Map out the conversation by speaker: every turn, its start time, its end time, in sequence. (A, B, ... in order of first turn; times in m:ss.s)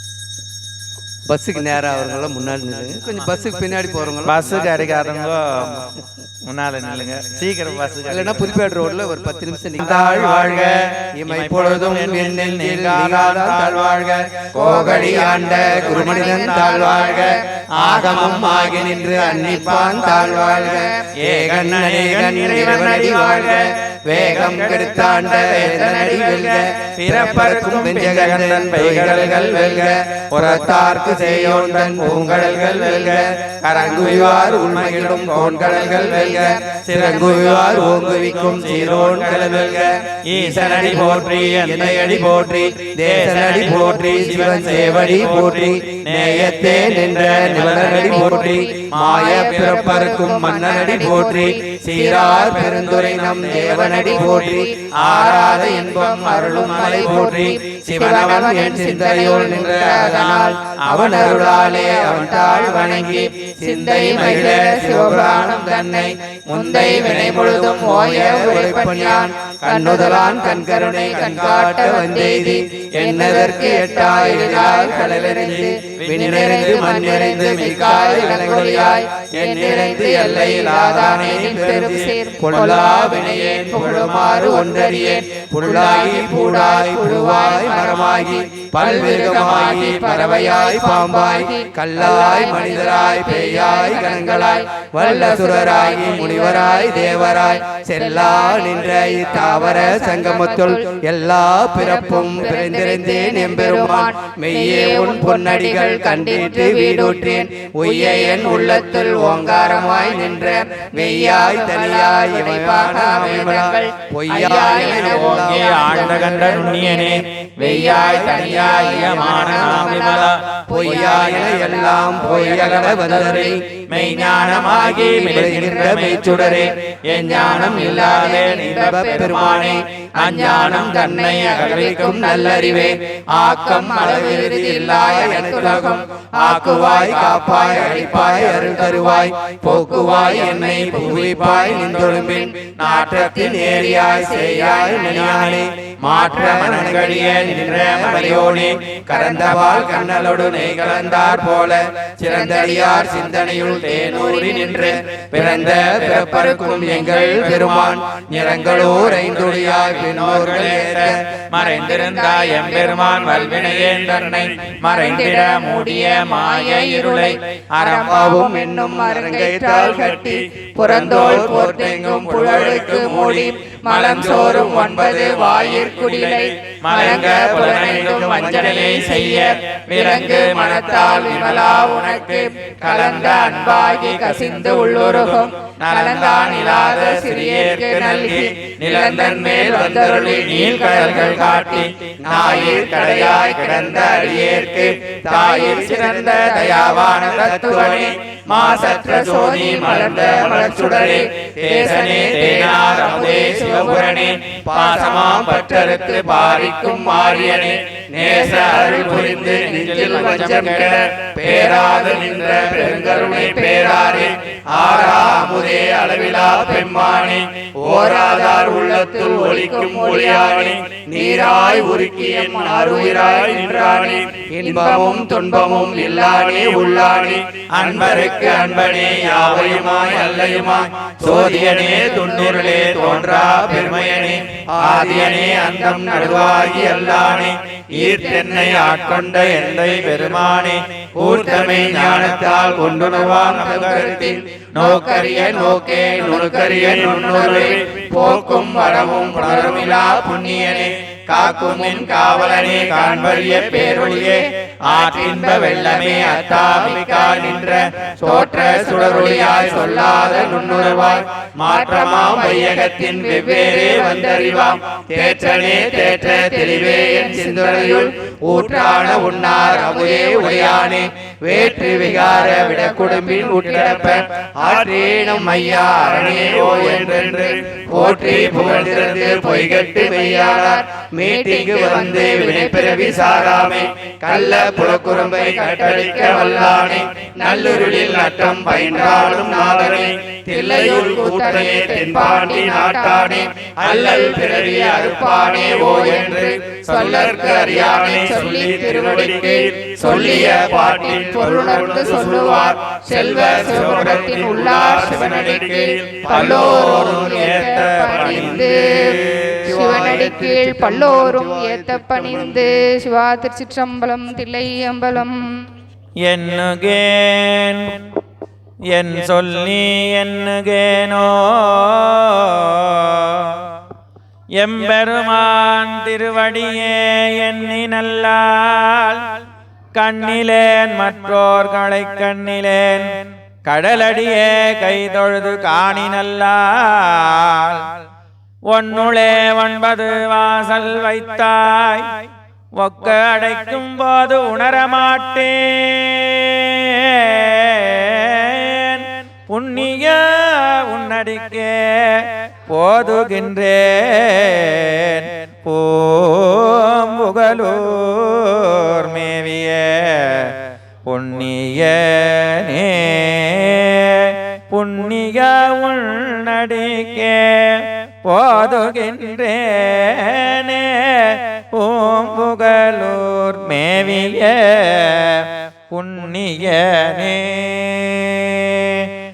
0:01.3-0:04.8 A
0:04.2-0:08.6 B
0:08.1-0:39.9 A
0:09.9-0:14.0 B
0:14.5-0:16.4 B
0:15.7-0:17.4 C
0:17.8-0:19.8 B
0:18.7-0:20.9 C
0:21.2-0:50.0 B
0:35.6-0:38.7 C
0:39.4-0:39.9 C
0:40.4-0:54.7 A
0:40.5-0:41.4 C
0:43.5-0:45.4 C
0:47.5-1:41.0 C
0:53.4-0:57.6 B
0:55.3-1:56.8 A
1:00.8-1:02.5 B
1:04.1-1:04.6 B
1:06.6-1:07.4 B
1:08.2-1:08.5 B
1:16.3-1:18.1 B
1:41.8-2:31.6 C
1:54.4-2:12.7 B
2:00.7-2:03.6 A
2:04.4-2:06.7 A
2:07.4-2:07.9 A
2:08.7-2:10.8 A
2:12.1-2:12.8 A
2:13.4-2:14.2 B
2:13.7-2:34.0 A
2:16.5-2:17.0 B
2:22.8-2:23.5 B
2:25.5-2:31.8 B
2:32.2-2:39.1 C
2:32.3-2:32.6 B
2:33.5-2:36.7 B
2:34.6-2:41.2 A
2:38.6-2:48.4 B
2:40.8-3:14.7 C
2:48.1-2:50.2 A
2:51.0-2:53.3 A
2:52.7-2:55.3 B
2:54.1-2:54.8 A
2:56.8-3:34.3 B
3:12.2-3:14.4 A
3:15.2-3:19.3 A
3:15.4-3:47.3 C
3:20.6-3:22.9 A
3:23.4-3:23.7 A
3:24.6-3:27.4 A
3:28.1-3:54.0 A
3:34.9-3:35.6 B
3:47.7-4:24.5 B
3:48.2-3:48.7 C
3:54.7-3:57.0 A
3:56.8-3:57.2 C
3:58.0-3:58.6 C
4:01.3-4:02.4 A
4:03.3-4:34.2 C
4:24.9-4:53.2 A
4:34.8-4:43.7 C
4:44.3-5:15.5 C
4:49.0-4:49.6 B
4:51.4-4:51.6 B
4:52.3-5:02.5 B
4:53.8-4:55.0 A
4:55.8-4:56.4 A
5:00.5-5:00.9 A
5:03.1-5:10.0 B
5:03.3-5:03.6 A
5:06.3-5:07.5 A
5:08.2-5:12.7 A
5:16.3-5:18.1 B
5:18.9-5:23.7 B
5:24.6-5:29.3 B
5:30.0-5:33.1 B
5:33.6-5:37.9 B
5:38.7-5:42.1 B
5:42.8-6:00.6 B
6:01.1-6:19.1 B